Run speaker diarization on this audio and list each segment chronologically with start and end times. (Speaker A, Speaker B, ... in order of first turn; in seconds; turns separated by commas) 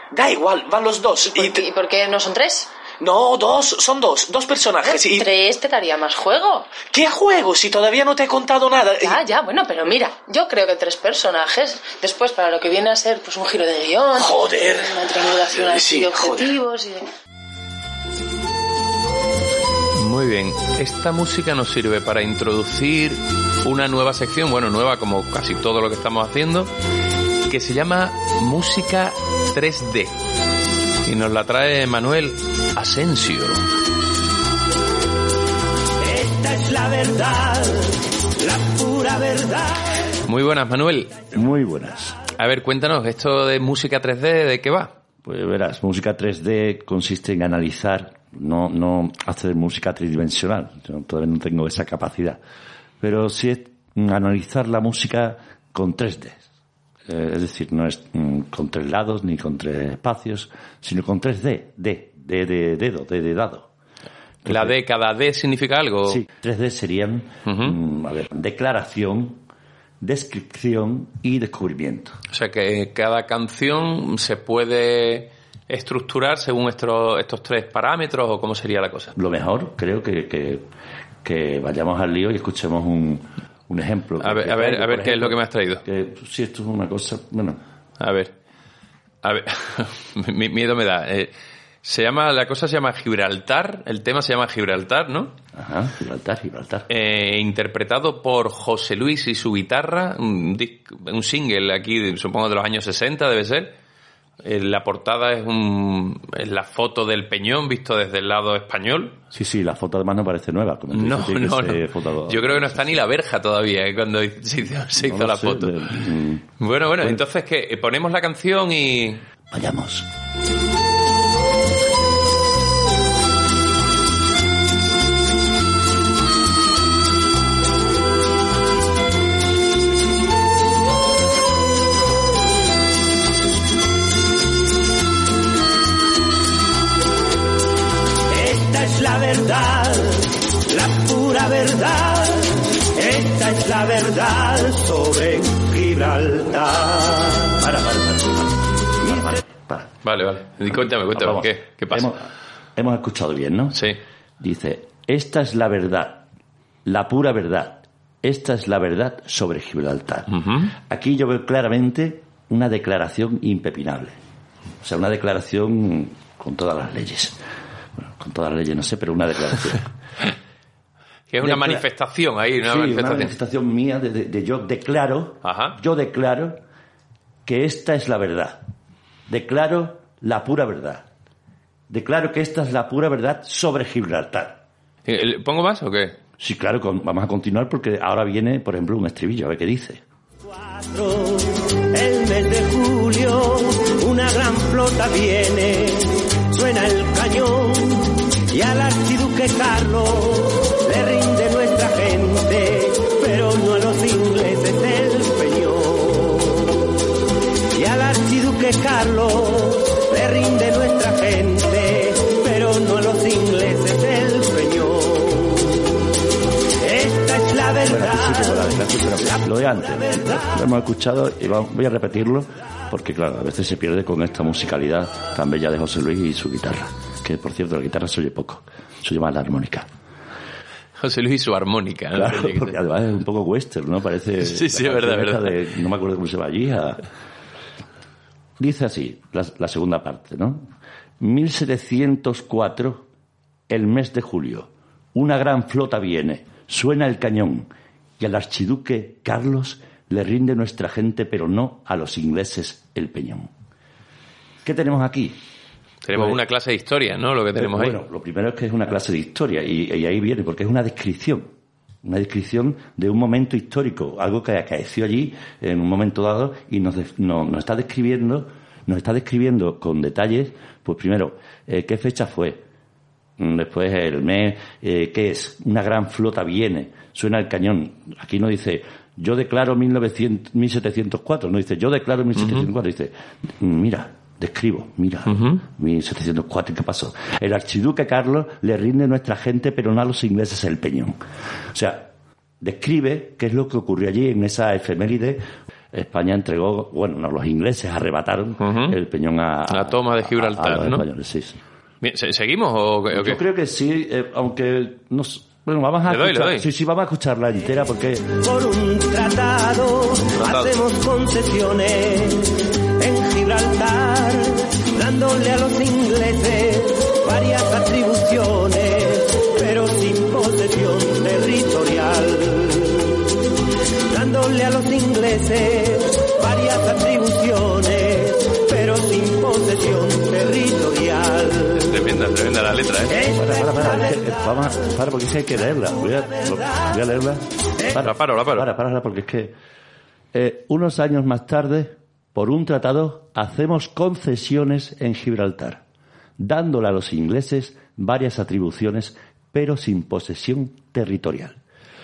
Speaker A: 0.1-1.7, Speaker B: 1.2-2.7, Speaker A: 3.0-5.3, Speaker B: 4.8-6.8, Speaker A: 6.8-9.2, Speaker B: 9.0-17.1, Speaker A: 14.2-16.5, Speaker C: 20.0-26.7, Speaker C: 27.5-30.2, Speaker C: 31.1-33.7, Speaker D: 36.0-39.9, Speaker C: 40.2-41.2, Speaker E: 41.3-42.2, Speaker C: 42.4-44.9, Speaker E: 45.2-52.4, Speaker E: 53.0-56.5, Speaker E: 57.1-63.7, Speaker E: 64.4-64.7, Speaker C: 64.5-66.2, Speaker E: 66.0-69.4, Speaker C: 67.5-67.8, Speaker E: 70.0-72.2, Speaker C: 72.3-79.1, Speaker E: 79.2-80.7, Speaker E: 81.2-87.6, Speaker C: 84.2-85.8, Speaker C: 88.0-88.3, Speaker C: 89.2-91.3, Speaker C: 91.8-95.3, Speaker E: 95.5-96.9, Speaker C: 96.9-103.7, Speaker C: 104.4-109.2, Speaker E: 109.3-113.0, Speaker C: 110.9-115.8, Speaker E: 115.0-116.5, Speaker C: 116.6-119.2, Speaker E: 119.5-120.1, Speaker D: 138.3-147.5, Speaker E: 147.6-149.9, Speaker C: 150.0-152.1, Speaker E: 150.7-153.8, Speaker C: 153.7-154.0, Speaker E: 154.4-156.3, Speaker E: 156.8-164.2, Speaker C: 160.3-160.7, Speaker E: 164.8-167.4, Speaker E: 168.0-169.9, Speaker C: 171.3-173.3, Speaker E: 171.4-171.8, Speaker E: 172.6-176.6, Speaker C: 175.4-175.8, Speaker E: 177.4-178.6, Speaker E: 179.3-181.1, Speaker E: 181.9-184.6, Speaker C: 185.1-186.2, Speaker E: 186.4-190.0, Speaker D: 190.5-206.8, Speaker D: 207.7-215.9, Speaker D: 216.8-218.7, Speaker E: 217.9-229.9, Speaker D: 219.7-220.4, Speaker C: 231.0-232.8, Speaker E: 232.1-237.0, Speaker C: 234.4-235.6, Speaker E: 238.6-240.7, Speaker E: 241.2-243.1, Speaker E: 243.7-253.5, Speaker E: 254.6-255.4, Speaker C: 256.0-258.0, Speaker E: 256.1-256.4, Speaker E: 257.6-261.5, Speaker E: 262.0-272.6, Speaker E: 273.4-291.2, Speaker C: 282.4-282.7, Speaker C: 285.3-285.6, Speaker E: 291.7-292.1, Speaker E: 292.6-301.6, Speaker C: 298.6-299.0, Speaker C: 299.7-301.1, Speaker C: 302.0-303.4, Speaker E: 303.1-308.4, Speaker C: 306.1-306.7, Speaker D: 308.4-323.3, Speaker C: 310.4-310.8, Speaker D: 324.1-332.0, Speaker C: 331.9-333.2, Speaker D: 333.1-334.7, Speaker E: 333.1-339.6, Speaker D: 336.1-336.9, Speaker C: 337.9-338.7, Speaker E: 340.3-345.8, Speaker E: 346.4-351.6